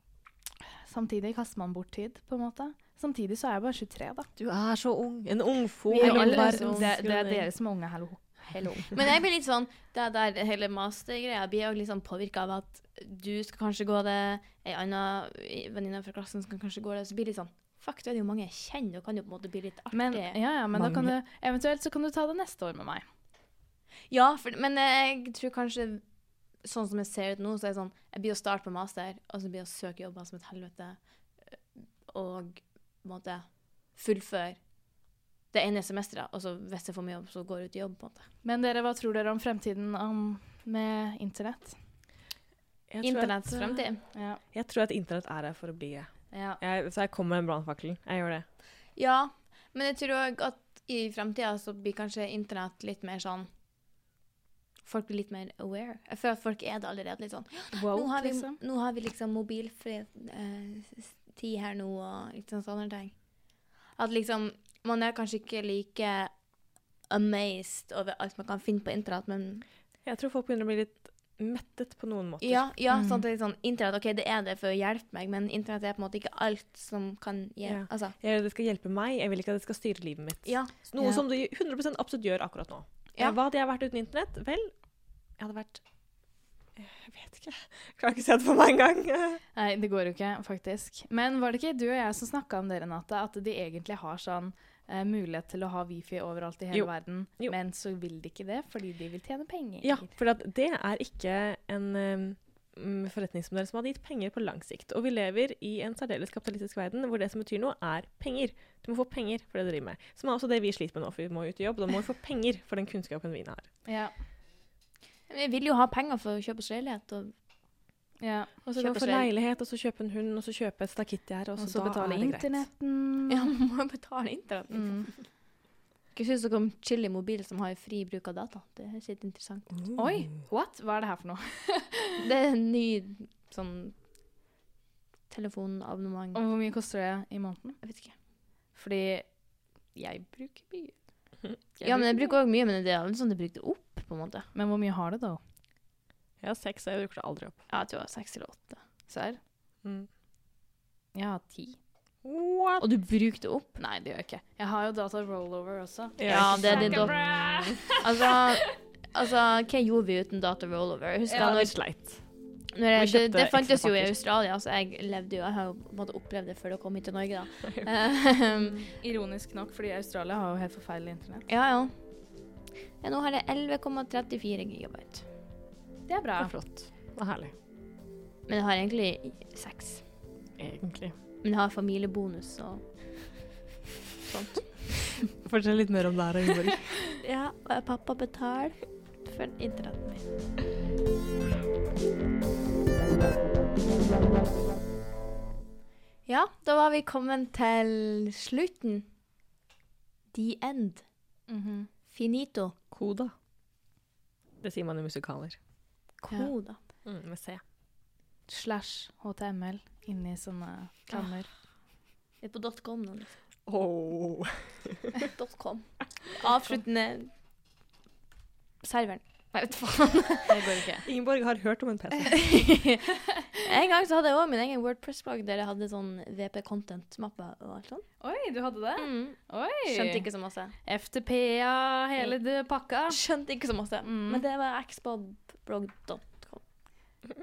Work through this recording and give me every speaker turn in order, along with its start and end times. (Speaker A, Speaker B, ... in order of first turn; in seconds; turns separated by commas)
Speaker A: 0.9-4.3, Speaker B: 4.3-7.5, Speaker A: 5.9-8.9, Speaker C: 5.9-6.9, Speaker C: 8.9-20.4, Speaker A: 19.9-23.1, Speaker B: 20.7-21.1, Speaker C: 24.1-38.3, Speaker A: 38.4-41.8, Speaker B: 42.9-48.5, Speaker C: 43.0-44.0, Speaker A: 44.1-44.4, Speaker A: 46.3-46.6, Speaker C: 49.0-53.5, Speaker C: 54.8-66.5, Speaker A: 57.7-58.6, Speaker C: 67.0-69.7, Speaker B: 70.0-72.7, Speaker C: 72.4-78.2, Speaker A: 72.9-73.2, Speaker B: 77.6-85.8, Speaker C: 80.4-80.7, Speaker A: 81.0-81.2, Speaker B: 86.7-89.4, Speaker A: 89.5-100.1, Speaker B: 96.7-97.5, Speaker B: 99.8-113.7, Speaker A: 113.8-114.1, Speaker C: 115.3-117.3, Speaker A: 118.2-118.5, Speaker B: 118.6-122.7, Speaker C: 118.8-119.3, Speaker A: 121.6-123.5, Speaker C: 123.3-125.3, Speaker A: 124.7-125.1, Speaker C: 126.1-129.8, Speaker B: 129.8-130.2, Speaker A: 129.9-132.0, Speaker C: 132.2-134.0, Speaker C: 135.3-136.4, Speaker A: 136.3-137.8, Speaker C: 137.8-138.2, Speaker A: 138.7-139.4, Speaker A: 139.9-141.0, Speaker A: 141.7-142.4, Speaker C: 141.8-144.5, Speaker A: 144.5-145.4, Speaker B: 146.4-147.7, Speaker C: 147.7-148.8, Speaker A: 149.1-149.4, Speaker B: 149.8-150.1, Speaker A: 151.1-151.8, Speaker B: 152.2-152.8, Speaker C: 152.8-153.8, Speaker A: 153.8-158.0, Speaker B: 156.2-157.8, Speaker C: 156.3-162.2, Speaker A: 161.3-161.7, Speaker B: 161.4-164.1, Speaker C: 162.7-168.8, Speaker A: 169.0-171.5, Speaker C: 171.5-172.4, Speaker C: 173.0-175.3, Speaker A: 176.1-176.5, Speaker B: 176.4-177.5, Speaker C: 178.5-180.2, Speaker B: 180.6-181.1, Speaker C: 181.4-183.5, Speaker C: 184.3-185.1, Speaker B: 184.6-187.0, Speaker C: 187.2-190.3, Speaker C: 196.2-199.1, Speaker C: 200.3-201.1, Speaker A: 201.5-201.9, Speaker C: 202.1-202.8, Speaker B: 202.9-203.3, Speaker B: 204.6-205.6, Speaker C: 206.2-206.8, Speaker B: 207.0-207.6, Speaker A: 208.5-211.5, Speaker C: 211.1-211.8, Speaker C: 212.4-213.4, Speaker B: 213.6-215.1, Speaker C: 215.3-217.3, Speaker C: 218.8-220.8, Speaker A: 220.4-221.1, Speaker B: 221.0-222.6, Speaker C: 222.3-228.2, Speaker A: 228.2-233.2, Speaker C: 229.0-230.8, Speaker C: 232.2-236.7, Speaker A: 234.0-234.4